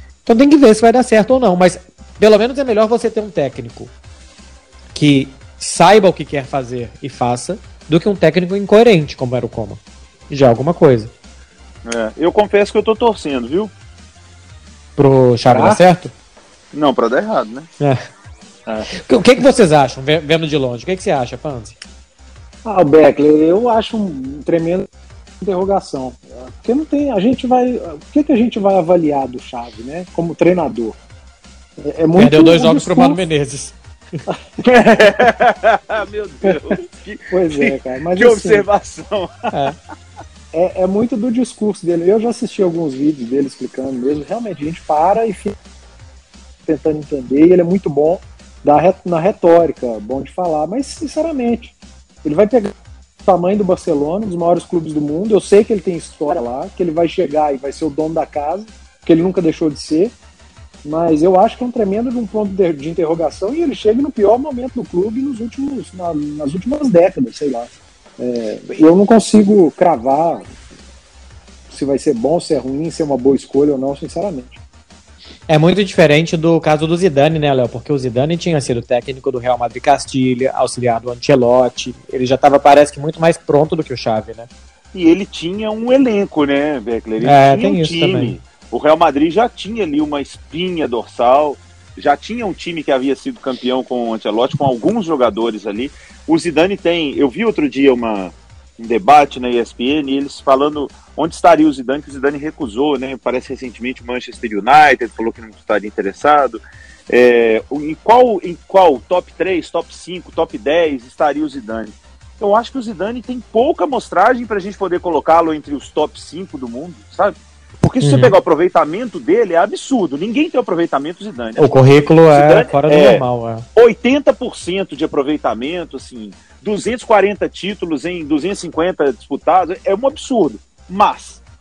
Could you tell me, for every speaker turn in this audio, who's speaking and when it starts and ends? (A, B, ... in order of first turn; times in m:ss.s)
0:00.3-0:03.9 A
0:05.0-0:11.1 A
0:11.8-0:13.7 B
0:15.0-0:16.1 A
0:15.5-0:15.8 C
0:16.7-0:17.7 B
0:18.9-0:21.8 A
0:22.6-0:24.9 C
0:25.4-0:31.0 C
0:31.8-0:33.2 C
0:32.2-0:33.8 A
0:34.6-0:39.5 B
0:37.3-0:38.7 C
0:40.5-0:45.6 C
0:46.7-0:52.7 C
0:53.2-1:00.1 C
1:00.8-1:10.5 C
1:11.7-1:14.6 C
1:15.5-1:24.5 A
1:24.9-2:01.7 B
1:27.2-1:28.4 A
1:58.0-1:58.4 A
2:01.6-2:03.6 A
2:02.3-2:03.2 B
2:03.8-2:11.4 B